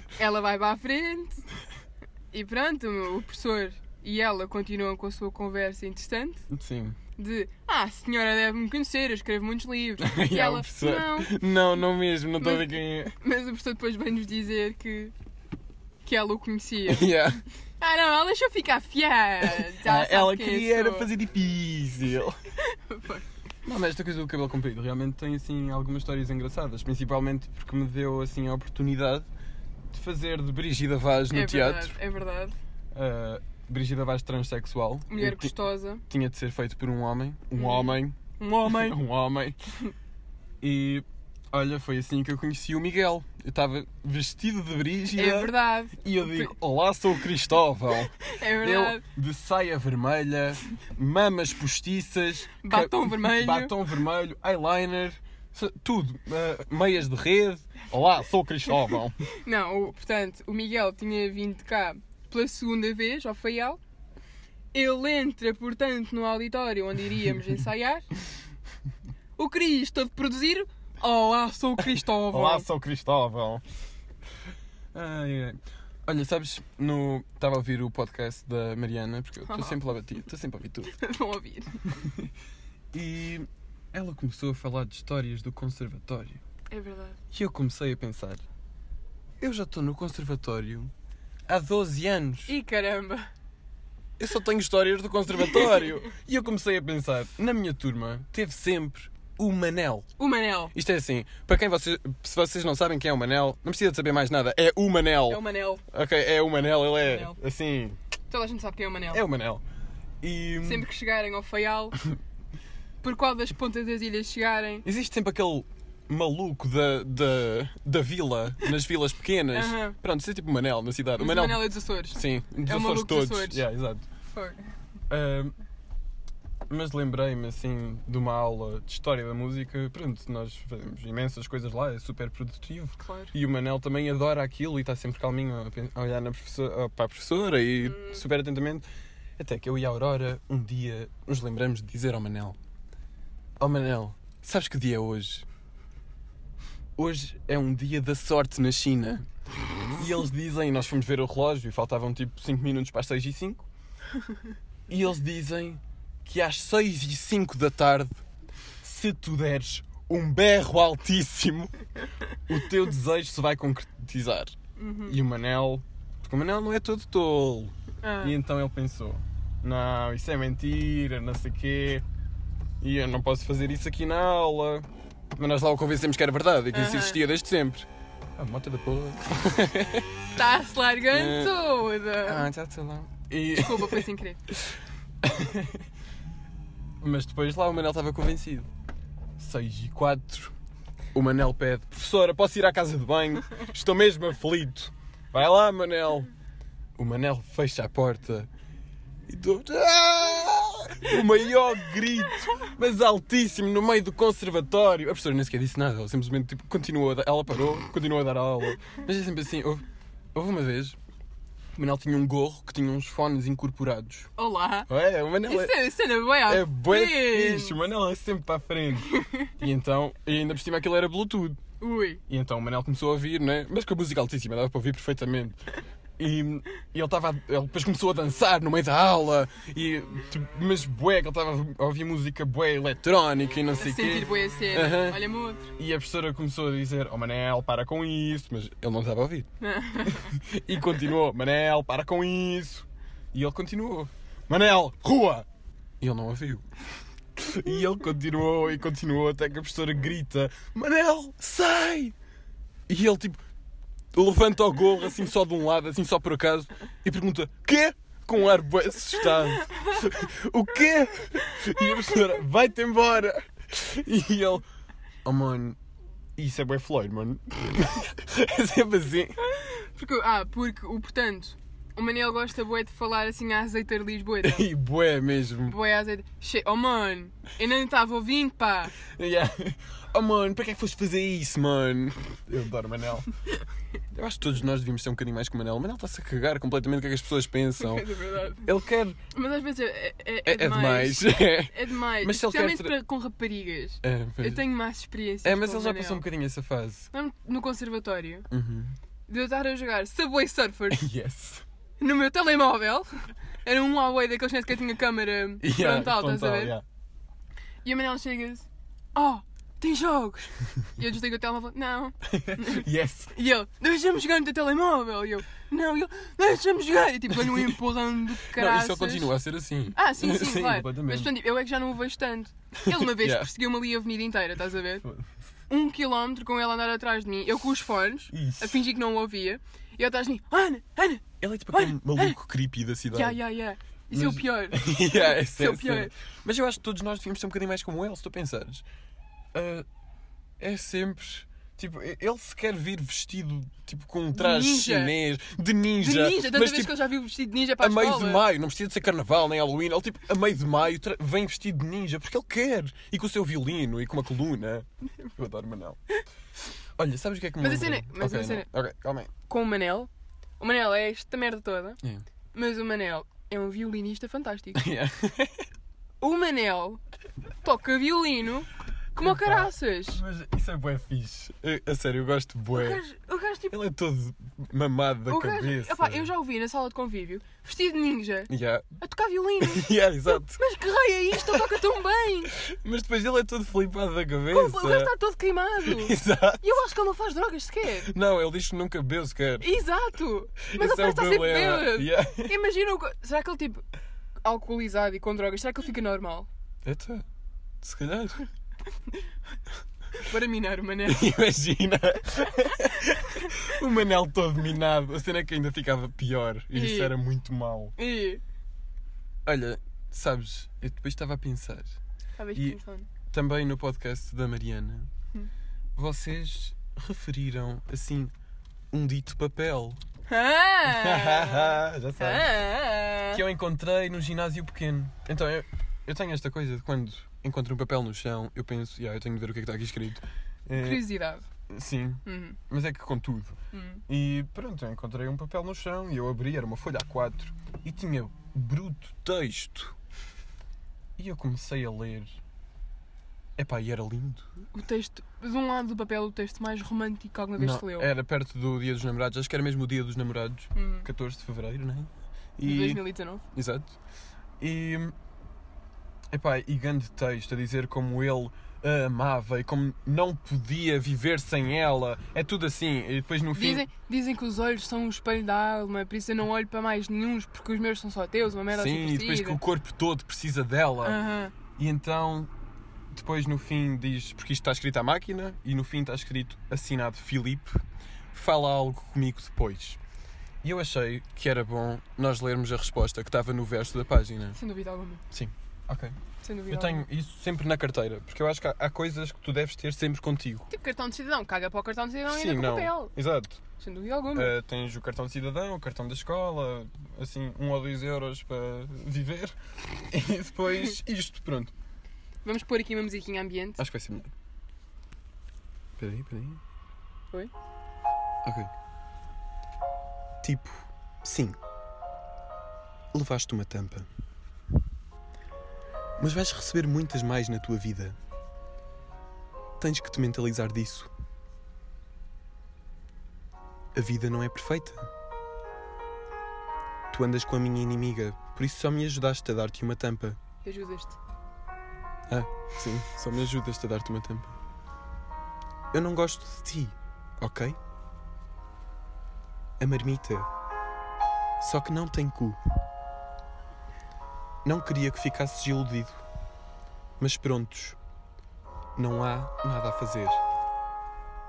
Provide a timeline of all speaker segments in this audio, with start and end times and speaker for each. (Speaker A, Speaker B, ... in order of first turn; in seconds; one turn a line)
Speaker A: 0.2-1.4
Speaker A: 2.3-6.4
Speaker B: 6.5-7.0
Speaker A: 7.2-11.3
Speaker B: 10.0-13.2
Speaker A: 12.4-15.1
Speaker A: 16.0-17.2
Speaker B: 16.9-17.4
Speaker A: 17.8-21.1
Speaker B: 19.4-22.4
Speaker A: 22.6-23.2
Speaker B: 23.6-29.3
Speaker B: 29.9-31.9
Speaker A: 31.3-32.5
Speaker B: 32.9-35.5
Speaker A: 35.1-36.0
Speaker B: 36.1-39.6
Speaker A: 37.5-39.0
Speaker B: 40.6-59.1
Speaker A: 45.1-46.5
Speaker A: 48.2-49.0
Speaker A: 52.6-53.8
Speaker A: 59.2-63.8
Speaker A: 64.7-68.1
Speaker A: 69.4-72.7
Speaker B: 72.0-73.6
Speaker B: 74.9-80.9
Speaker A: 79.5-79.8
Speaker A: 80.9-81.8
Speaker B: 81.9-82.3
Speaker B: 82.9-86.4
Speaker A: 86.7-87.2
Speaker B: 87.3-88.4
Speaker B: 89.4-90.9
Speaker B: 91.5-92.5
Speaker A: 92.5-93.3
Speaker B: 94.2-100.1
Speaker A: 100.2-100.7
Speaker B: 100.7-108.0
Speaker A: 105.3-105.8
Speaker A: 107.0-107.4
Speaker A: 108.3-109.2
Speaker B: 109.1-109.6
Speaker B: 110.2-110.9
Speaker A: 110.6-112.0
Speaker A: 113.0-114.8
Speaker B: 114.8-124.0
Speaker A: 119.5-120.0
Speaker A: 121.2-123.6
Speaker A: 124.3-124.6
Speaker B: 125.1-125.5
Speaker B: 126.7-138.8
Speaker A: 133.0-133.3
Speaker A: 137.8-138.2
Speaker B: 139.4-142.6
Speaker B: 143.6-145.4
Speaker B: 147.0-149.2
Speaker B: 149.9-153.7
Speaker B: 154.9-158.2
Speaker B: 158.8-161.7
Speaker B: 162.5-164.5
Speaker A: 164.8-165.2
Speaker B: 165.0-172.0
Speaker A: 168.0-168.3
Speaker B: 172.8-180.1
Speaker A: 176.7-177.2
Speaker A: 180.3-182.5
Speaker B: 181.1-181.6
Speaker B: 182.2-184.6
Speaker A: 183.5-184.4
Speaker B: 185.2-185.8
Speaker B: 187.0-188.7
Speaker B: 189.4-190.5
Speaker B: 191.1-196.3
Speaker B: 197.0-198.5
Speaker B: 199.3-211.0
Speaker B: 211.7-214.3
Speaker A: 214.4-214.9
Speaker B: 214.9-215.9
Speaker A: 215.4-217.8
Speaker B: 216.4-221.6
Speaker A: 219.1-219.5
Speaker A: 221.8-222.2
Speaker B: 222.3-225.6
Speaker B: 226.2-235.2
Speaker A: 233.8-235.7
Speaker B: 235.8-239.5
Speaker A: 239.6-240.3
Speaker B: 240.0-245.4
Speaker B: 246.0-246.7
Speaker B: 247.3-252.1
Speaker B: 252.9-253.4
Speaker B: 254.1-264.6
Speaker B: 265.2-265.8
Speaker B: 266.4-269.4
Speaker A: 269.4-274.7
Speaker B: 274.4-275.8
Speaker A: 275.7-278.9
Speaker B: 279.0-283.3
Speaker B: 284.1-288.1
Speaker A: 287.8-288.7
Speaker B: 288.6-289.2
Speaker A: 289.3-296.2
Speaker B: 290.4-292.9
Speaker B: 294.0-294.6
Speaker B: 295.4-297.1
Speaker A: 297.1-298.5
Speaker B: 298.5-298.9
Speaker A: 299.3-301.1
Speaker B: 300.9-301.6
Speaker A: 302.0-306.7
Speaker B: 305.6-306.8
Speaker A: 307.8-319.3
Speaker B: 312.2-313.3
Speaker B: 317.3-317.8
Speaker B: 318.4-321.3
Speaker A: 319.9-325.1
Speaker B: 322.9-323.5
Speaker A: 325.7-332.4
Speaker B: 328.3-328.8
Speaker B: 331.4-333.4
Speaker A: 333.1-336.1
Speaker B: 334.1-338.8
Speaker B: 339.5-339.9
Speaker B: 340.6-347.1
Speaker A: 344.3-345.1
Speaker A: 346.0-348.4
Speaker B: 347.8-356.0
Speaker B: 357.0-359.3
Speaker A: 357.6-358.7
Speaker A: 359.4-362.0
Speaker A: 362.5-364.9
Speaker B: 364.7-365.7
Speaker A: 366.2-367.0
Speaker A: 367.6-370.2
Speaker B: 369.2-373.0
Speaker A: 372.7-373.8
Speaker B: 373.7-376.3
Speaker A: 375.3-382.5
Speaker B: 378.5-378.9
Speaker B: 379.6-380.6
Speaker B: 381.3-381.7
Speaker B: 382.5-385.1
Speaker A: 384.5-388.1
Speaker B: 385.8-386.6
Speaker B: 388.0-389.7
Speaker A: 389.6-393.8
Speaker B: 390.7-392.5
Speaker A: 394.4-396.5
Speaker B: 396.8-397.2
Speaker B: 397.8-398.4
Speaker A: 400.1-401.3
Speaker B: 401.1-407.9
Speaker A: 406.7-407.1
Speaker A: 408.0-408.4
Speaker B: 409.4-411.9
Speaker A: 412.4-413.1
Speaker B: 413.3-415.1
Speaker B: 415.9-418.3
Speaker B: 418.9-420.0
Speaker A: 420.3-423.4
Speaker B: 420.9-422.5
Speaker B: 423.3-431.1
Speaker A: 430.8-431.4
Speaker B: 431.7-433.5
Speaker A: 432.2-432.6
Speaker A: 433.7-434.0
Speaker B: 434.1-439.9
Speaker B: 441.2-442.4
Speaker B: 443.6-444.6
Speaker A: 444.7-448.1
Speaker B: 447.6-453.9
Speaker A: 450.7-451.1
Speaker A: 452.6-453.4
Speaker B: 454.6-455.1
Speaker B: 456.3-463.9
Speaker A: 463.5-469.6
Speaker B: 468.7-471.2
Speaker A: 471.0-471.5
Speaker B: 471.8-472.5
Speaker B: 473.1-477.8
Speaker B: 478.3-480.0
Speaker B: 480.6-484.6
Speaker A: 484.5-485.2
Speaker B: 485.3-486.1
Speaker A: 486.4-487.0
Speaker B: 486.7-490.7
Speaker A: 490.7-493.1
Speaker B: 492.3-493.6
Speaker A: 493.8-494.5
Speaker B: 494.3-501.7
Speaker A: 502.4-503.8
Speaker B: 503.8-504.3
Speaker B: 506.0-506.6
Speaker B: 508.4-508.7
Speaker B: 510.4-511.6
Speaker B: 513.1-514.1
Speaker B: 516.2-518.2
Speaker B: 519.8-521.1
Speaker B: 523.9-525.1
Speaker B: 527.1-530.4
Speaker A: 530.6-531.2
Speaker B: 532.3-534.5
Speaker B: 535.9-537.8
Speaker B: 539.8-540.5
Speaker B: 541.6-542.6
Speaker B: 544.6-546.2
Speaker B: 547.2-548.0
Speaker B: 549.0-550.4